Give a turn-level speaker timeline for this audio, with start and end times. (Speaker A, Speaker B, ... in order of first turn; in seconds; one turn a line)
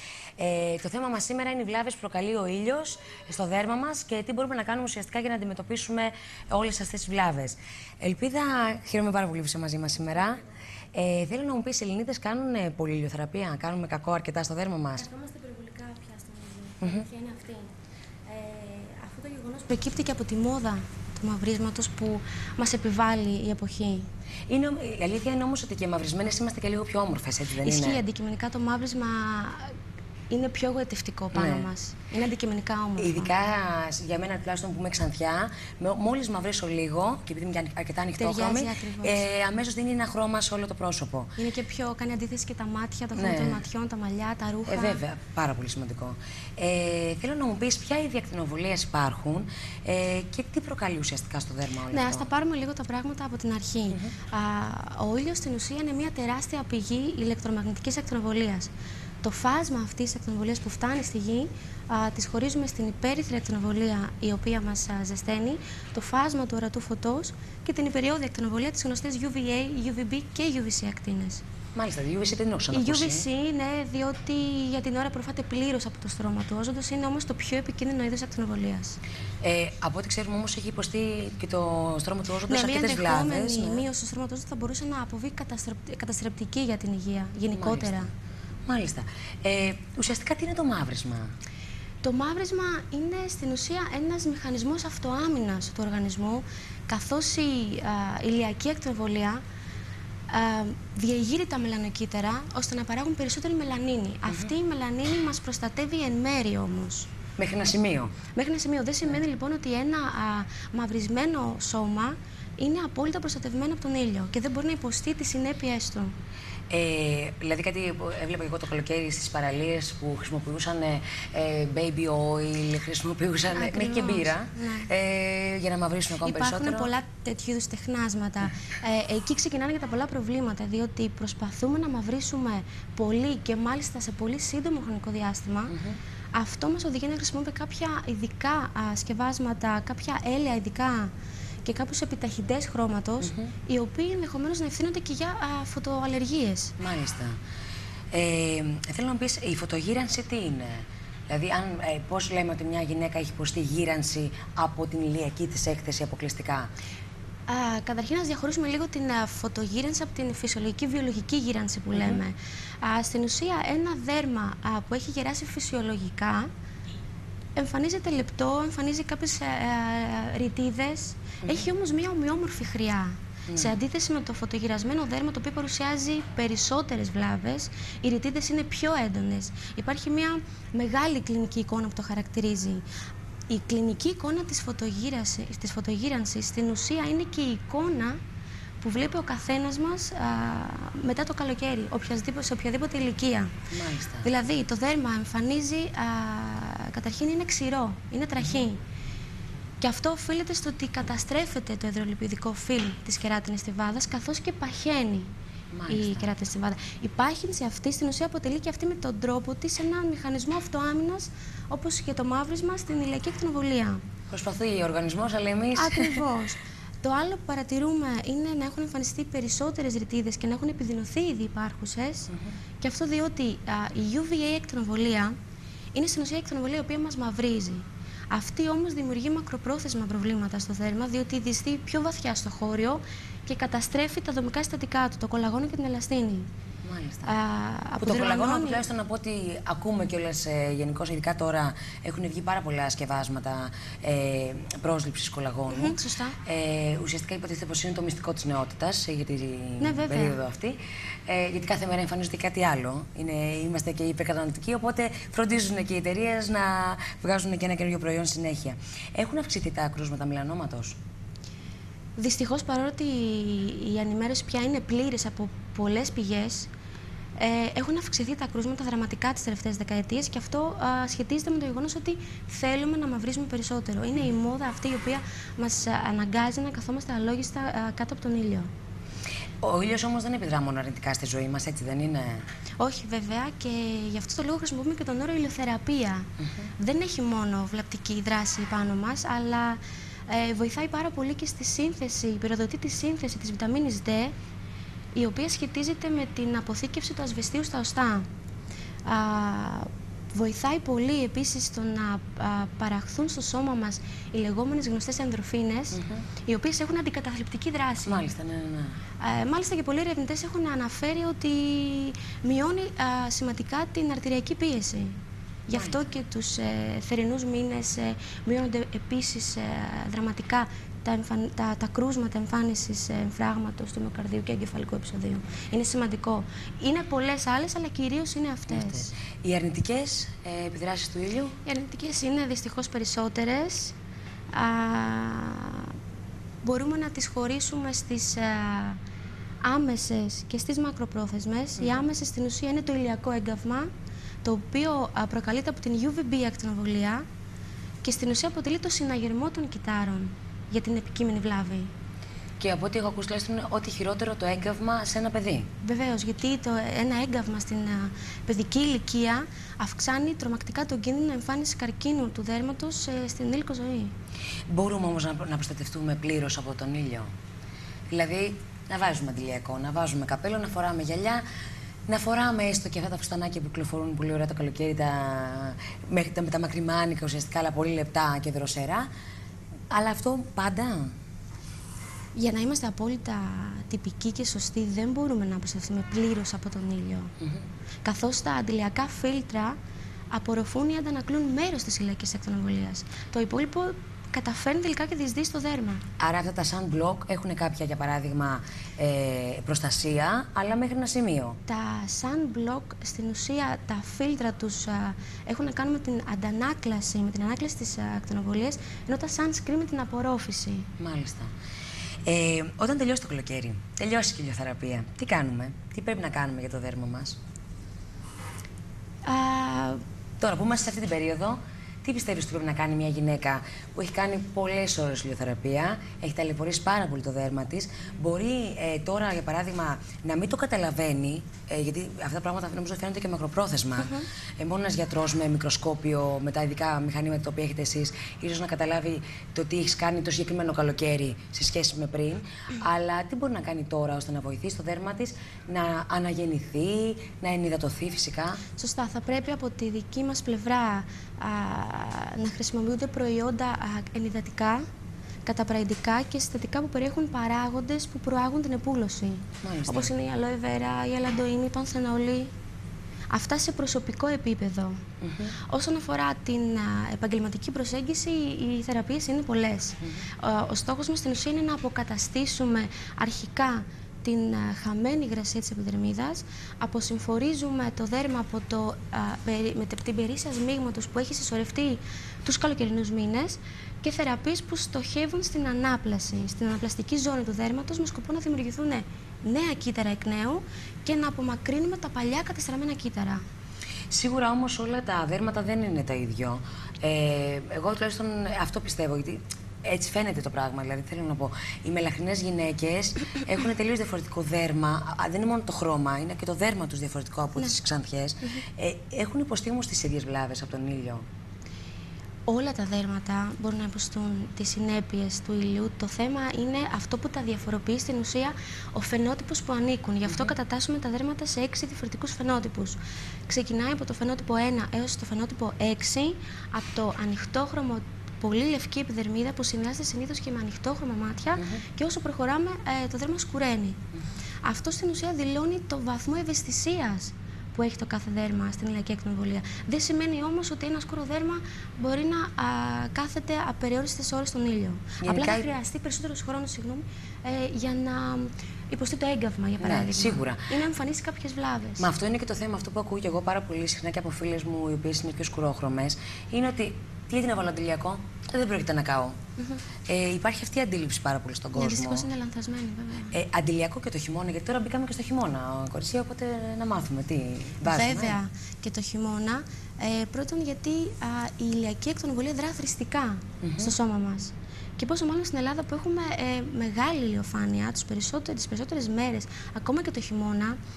Speaker A: 0.4-10.4
Speaker A: 10.9-15.1
Speaker B: 15.0-17.7
Speaker A: 16.8-17.1
Speaker B: 18.3-24.1
Speaker A: 24.5-28.0
Speaker B: 27.6-29.8
Speaker B: 30.3-33.3
Speaker A: 31.3-31.7
Speaker A: 33.0-41.4
Speaker B: 38.2-39.2
Speaker B: 41.4-45.0
Speaker A: 43.1-43.6
Speaker A: 44.7-52.3
Speaker B: 51.9-58.7
Speaker B: 59.2-71.4
Speaker A: 71.8-73.3
Speaker B: 72.7-79.0
Speaker A: 79.4-83.9
Speaker B: 82.5-88.1
Speaker A: 87.5-88.1
Speaker A: 88.7-91.3
Speaker B: 92.0-99.4
Speaker B: 100.3-107.1
Speaker A: 104.3-104.5
Speaker A: 107.4-108.2
Speaker B: 108.3-116.1
Speaker A: 116.7-126.9
Speaker B: 123.5-124.9
Speaker B: 126.2-135.7
Speaker A: 135.7-136.0
Speaker B: 136.3-141.1
Speaker B: 141.6-146.8
Speaker A: 143.2-143.5
Speaker A: 146.8-147.4
Speaker A: 148.1-156.7
Speaker B: 157.5-166.5
Speaker A: 161.9-162.2
Speaker B: 167.6-182.8
Speaker A: 173.5-173.8
Speaker B: 183.5-188.2
Speaker B: 188.8-193.6
Speaker A: 193.7-194.3
Speaker B: 194.2-198.8
Speaker A: 198.4-198.7
Speaker B: 199.8-205.3
Speaker A: 205.7-206.3
Speaker B: 205.9-214.0
Speaker A: 214.3-216.2
Speaker B: 215.8-225.4
Speaker B: 225.9-236.5
Speaker A: 236.8-237.4
Speaker B: 237.3-238.8
Speaker A: 238.0-261.0
Speaker B: 245.7-246.4
Speaker B: 249.8-250.4
Speaker B: 262.2-266.7
Speaker B: 267.4-278.7
Speaker A: 279.6-282.5
Speaker B: 282.8-294.3
Speaker A: 286.4-286.7
Speaker B: 295.1-298.3
Speaker B: 299.1-308.3
Speaker A: 305.9-306.3
Speaker A: 308.1-309.0
Speaker B: 309.2-329.1
Speaker A: 315.7-316.0
Speaker A: 328.7-331.6
Speaker B: 331.6-333.9
Speaker B: 334.5-335.9
Speaker B: 336.6-339.0
Speaker B: 339.6-343.9
Speaker B: 344.4-347.2
Speaker B: 348.0-351.9
Speaker A: 352.6-355.7
Speaker B: 355.8-364.1
Speaker A: 364.7-367.3
Speaker A: 368.1-371.4
Speaker A: 372.1-379.1
Speaker A: 379.9-381.1
Speaker B: 382.4-387.3
Speaker B: 388.0-389.8
Speaker B: 390.3-396.0
Speaker A: 396.2-401.6
Speaker B: 401.7-410.9
Speaker A: 411.0-411.5
Speaker A: 412.2-417.4
Speaker B: 419.2-420.0
Speaker A: 420.4-448.6
Speaker B: 448.8-454.9
Speaker B: 455.5-462.5
Speaker A: 459.6-460.1
Speaker B: 463.3-465.0
Speaker A: 465.2-465.6
Speaker B: 465.7-493.4
Speaker A: 494.1-511.2
Speaker B: 512.5-534.0
Speaker A: 520.3-520.5
Speaker A: 531.6-531.8
Speaker B: 534.6-552.1
Speaker A: 545.2-545.7
Speaker A: 549.8-550.7
Speaker A: 552.0-559.4
Speaker A: 560.0-562.3
Speaker B: 561.8-563.3
Speaker A: 563.3-568.4
Speaker B: 567.9-580.8
Speaker A: 573.6-574.0